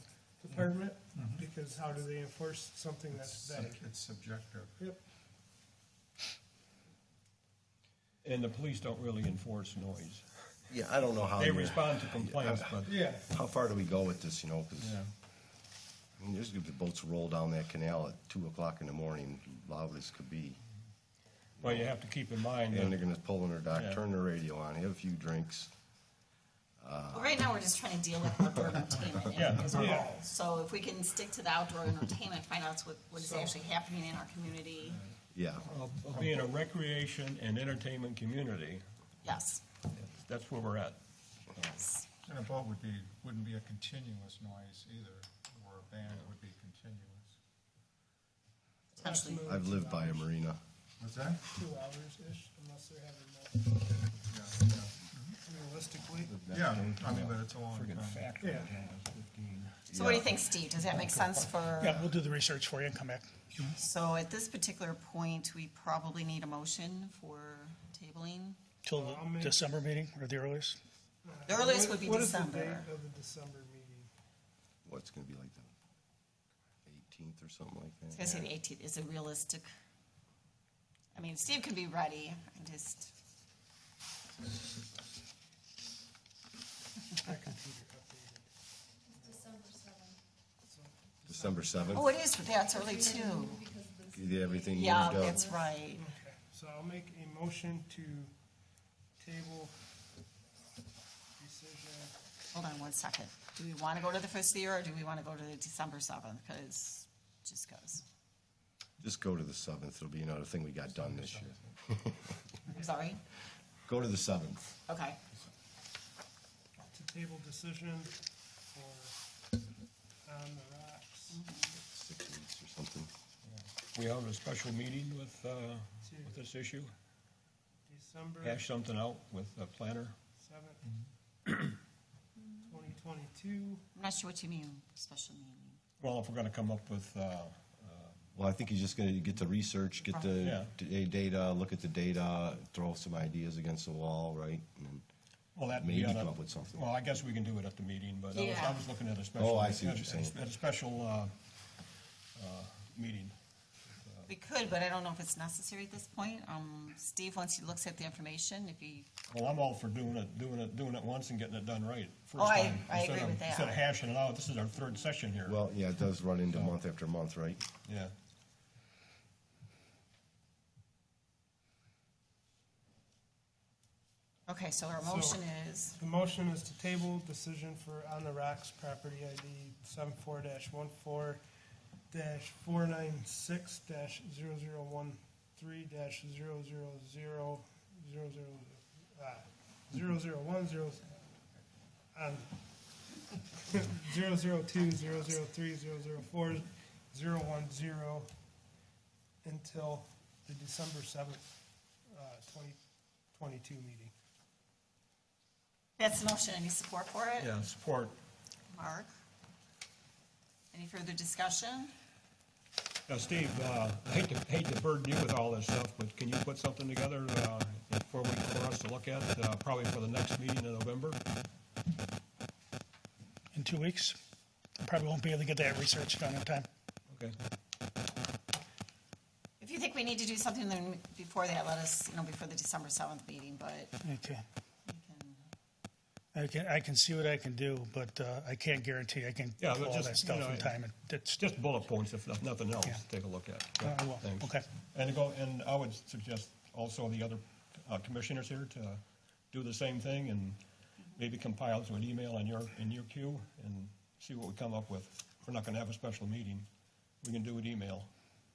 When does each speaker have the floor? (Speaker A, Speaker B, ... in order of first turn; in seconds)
Speaker A: 0.4-3.9, 12.9-13.3, 29.7-30.1, 48.9-50.3, 51.5-54.1, 55.4-56.3, 58.4-58.7, 68.9-69.7, 71.2-74.1, 87.2-88.5, 89.1-89.5, 90.6-92.0, 95.9-98.3, 99.2-99.8, 101.4-102.2, 116.9-119.2, 120.2-121.4, 126.0-126.4, 127.9-128.6, 130.4-130.8, 132.7-133.8, 175.0-175.4, 176.0-181.4, 182.1-191.2, 192.1-192.6, 193.5-198.3, 199.4-201.5, 202.1-202.8, 203.3-204.1
Speaker B: 1.1-1.4, 3.1-4.8, 34.9-35.2, 36.1-36.5, 42.2-47.4, 51.0-51.5, 54.3-55.4, 56.5-58.3, 110.9-111.8
Speaker C: 8.2-10.6, 11.3-13.0, 14.8-15.1, 21.6-23.0, 23.7-24.0, 29.4-30.0, 35.6-38.9, 39.9-41.0, 56.3-59.9, 60.9-61.5, 124.0-126.9, 128.4-130.2, 136.0-138.2, 140.4-140.7, 145.6-151.8, 152.3-154.3, 159.3-165.6, 167.9-168.1, 207.4-208.2, 213.1-221.2, 227.1-227.3, 239.6-256.7, 257.2-258.1
Speaker D: 10.7-15.0, 16.2-20.6, 21.6-21.9, 22.7-25.7, 26.8-27.4, 35.3-35.7, 49.5-50.6, 59.9-60.3, 74.8-75.7, 76.8-78.5, 91.3-92.2, 94.1-95.6, 109.0-112.4, 113.9-114.7, 121.8-123.1, 138.3-145.1, 145.7-146.8, 149.3-150.4, 165.4-167.6
Speaker E: 27.1-35.0, 39.2-39.6, 41.6-42.0, 49.0-49.5, 59.9-62.1, 63.7-68.7, 71.5-72.9, 78.1-79.7, 81.2-83.1, 91.9-93.7, 94.7-96.0, 102.5-108.0, 112.7-113.2, 114.9-115.2, 121.3-121.8, 133.9-135.8, 148.3-148.8, 154.3-159.2, 162.4-163.8, 174.5-176.0, 206.0-207.5, 208.7-209.1, 210.7-211.9, 229.6-234.0, 234.8-235.4
Speaker F: 61.8-63.7, 68.8-70.8, 223.5-224.2, 224.8-226.7, 234.0-234.4, 236.3-241.4, 243.8-244.7